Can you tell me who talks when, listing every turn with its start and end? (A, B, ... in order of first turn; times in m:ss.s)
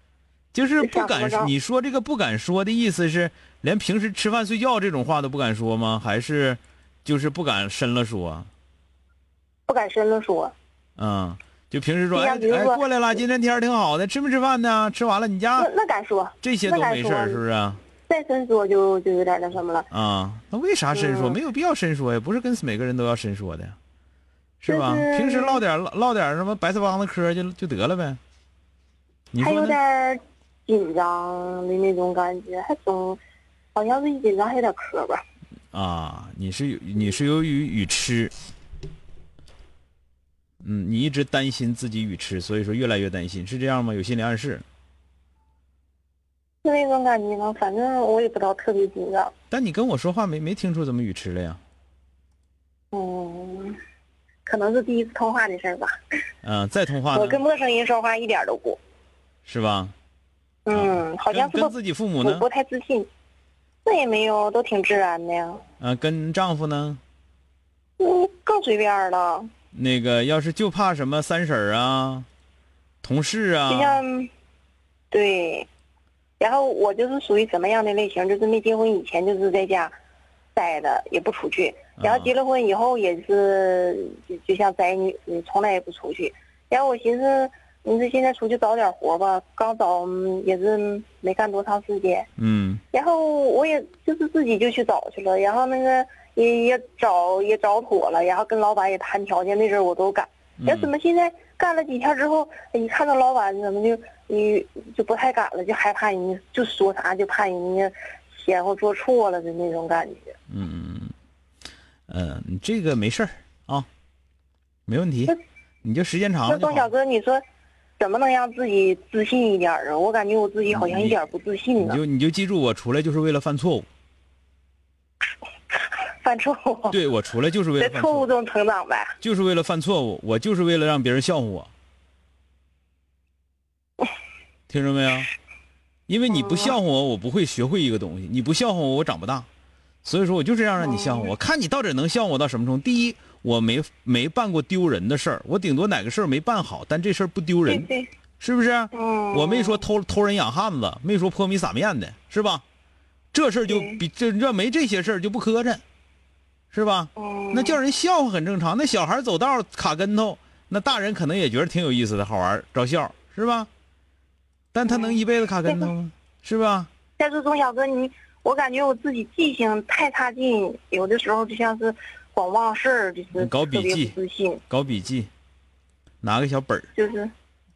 0:00.5-0:08.5 A
0:00.8-0:01.5 B
0:09.7-0:10.6 B
0:11.0-0:15.7 A
0:12.1-0:12.8 B
0:15.6-0:17.4 B
0:16.4-0:17.8 A
0:18.1-0:19.9 B
0:19.9-0:23.8 A
0:20.9-0:21.4 B
0:24.6-0:28.2 A
0:24.7-0:25.6 B
0:29.3-0:29.8 A
0:29.4-0:33.2 B
0:33.8-0:35.2 B
0:35.7-0:38.3 A
0:40.6-0:44.6 A
0:46.6-0:49.3 B
0:49.5-0:51.6 A
0:52.9-0:53.8 B
0:54.4-0:55.9 B
0:56.4-0:57.4 A
0:57.1-0:58.8 B
0:59.4-0:59.9 A
1:00.7-1:03.1 B
1:00.7-1:02.5 A
1:03.8-1:05.6 B
1:05.8-1:07.0 A
1:08.0-1:09.5 B
1:09.7-1:12.3 A
1:13.0-1:14.0 A
1:13.7-1:14.3 B
1:15.1-1:15.7 B
1:16.4-1:19.9 B
1:20.6-1:32.3 B
1:22.0-1:22.3 A
1:32.4-1:32.8 A
1:32.9-1:50.3 B
1:40.6-1:40.9 A
1:50.5-1:51.1 A
1:52.1-1:53.9 A
1:54.9-1:56.9 A
1:56.4-1:57.4 B
1:58.0-2:02.0 B
2:00.7-2:01.2 A
2:01.8-2:03.9 A
2:06.2-2:07.0 B
2:06.9-2:08.3 A
2:07.8-2:09.2 B
2:09.2-2:11.7 A
2:14.7-2:15.3 A
2:16.1-2:19.5 A
2:16.3-2:16.7 B
2:20.0-2:27.9 A
2:20.8-2:21.3 B
2:27.7-2:28.1 B
2:28.4-2:32.6 A
2:28.9-2:29.8 B
2:33.3-2:35.8 A
2:33.7-2:34.0 B
2:36.7-2:43.7 A
2:37.2-2:37.8 B
2:44.7-2:46.9 A
2:44.9-2:45.9 B
2:47.2-2:54.6 B
2:53.4-2:54.2 A
2:54.7-2:55.3 A
2:56.2-2:56.9 A
2:57.0-2:57.3 B